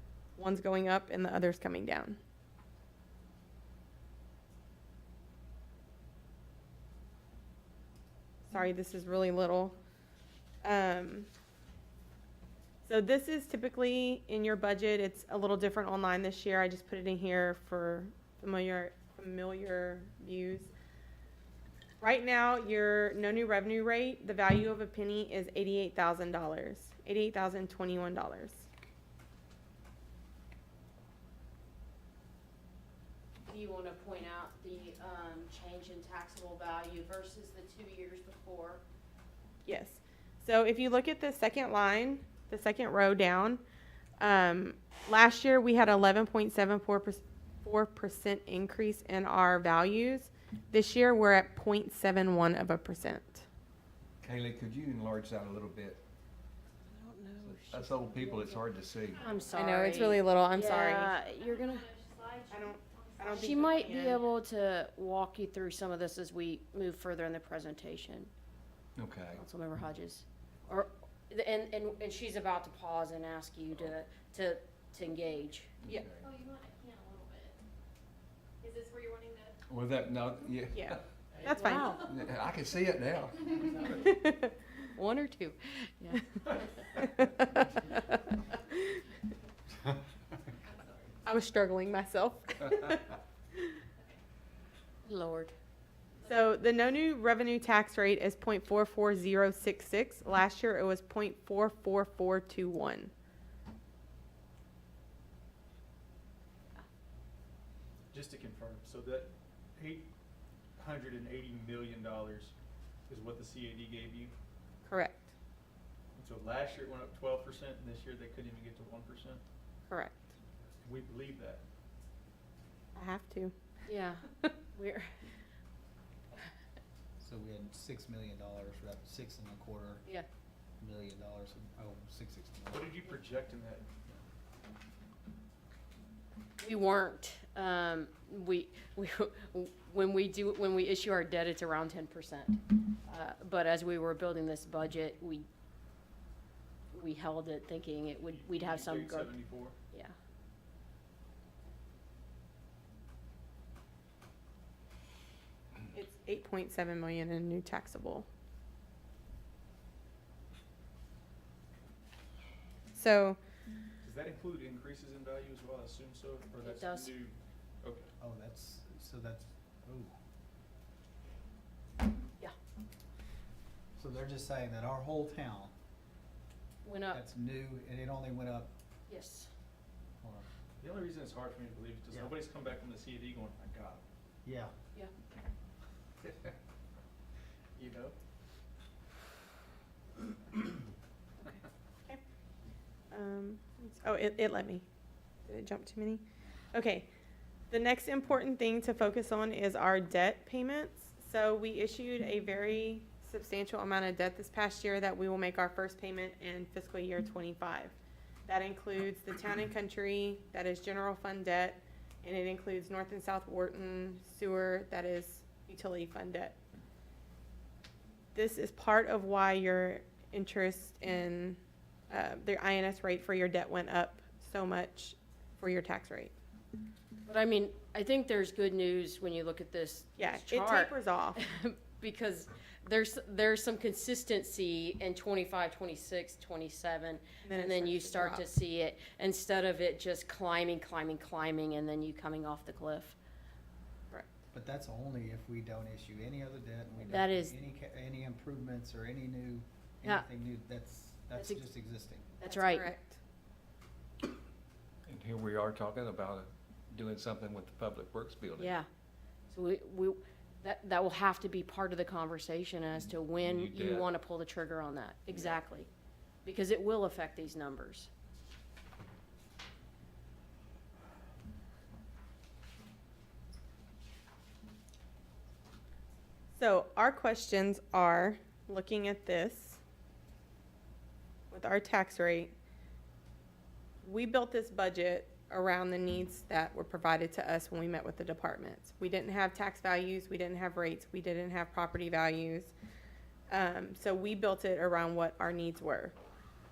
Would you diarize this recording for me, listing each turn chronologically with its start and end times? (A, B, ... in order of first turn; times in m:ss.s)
0:00.4-0:02.2 A
0:08.5-0:09.8 A
0:10.6-0:11.3 A
0:12.8-0:20.7 A
0:22.0-0:28.7 A
0:33.4-0:38.8 B
0:39.6-0:43.6 A
0:44.2-0:53.4 A
0:54.2-0:56.0 C
0:56.9-0:58.6 B
0:57.4-0:59.2 C
0:59.2-1:01.9 B
0:59.5-1:01.1 A
1:01.1-1:04.3 D
1:02.5-1:04.2 A
1:03.4-1:08.3 B
1:09.0-1:09.4 C
1:09.4-1:15.7 B
1:15.8-1:16.2 C
1:16.2-1:17.6 D
1:18.6-1:19.6 D
1:19.7-1:21.0 C
1:20.7-1:21.9 A
1:21.4-1:22.0 B
1:22.0-1:24.0 C
1:24.0-1:24.5 A
1:25.0-1:26.6 B
1:27.0-1:27.7 A
1:28.7-1:29.0 A
1:31.2-1:33.2 A
1:35.0-1:35.5 B
1:36.2-1:43.1 A
1:48.1-1:50.0 E
1:50.8-1:52.5 E
1:53.1-1:54.3 E
1:54.8-1:55.3 A
1:56.2-1:59.4 E
1:59.9-2:00.2 A
2:00.8-2:01.6 E
2:02.9-2:03.5 A
2:03.8-2:05.1 B
2:07.2-2:10.0 F
2:10.8-2:12.9 F
2:12.7-2:13.9 E
2:16.6-2:25.5 B
2:26.9-2:30.1 B
2:28.3-2:29.7 E
2:35.9-2:38.3 A
2:42.9-2:43.4 A
2:44.0-2:48.1 E
2:46.6-2:47.1 B
2:48.2-2:50.1 F
2:54.0-2:55.7 F
2:56.8-2:57.2 B
2:57.1-2:58.7 F
2:59.1-2:59.5 B
3:00.8-3:04.0 E
3:04.4-3:04.7 F
3:07.8-3:08.1 E
3:13.1-3:14.8 A
3:15.5-3:17.1 A
3:17.7-3:27.9 A
3:28.5-3:36.6 A
3:38.3-3:41.6 A
3:42.1-3:46.3 A
3:47.2-4:03.2 B
3:50.2-3:51.4 A
3:57.4-3:58.4 A
4:04.5-4:12.3 F
4:07.0-4:07.5 B
4:11.3-4:11.6 B
4:12.4-4:12.9 B
4:12.4-4:13.2 A
4:15.1-4:18.7 C
4:18.6-4:18.9 B
4:19.5-4:25.9 B
4:23.4-4:24.1 C
4:26.4-4:28.1 B
4:36.6-4:39.8 A
4:41.5-4:42.5 A
4:44.0-4:52.7 A
4:53.5-4:56.1 A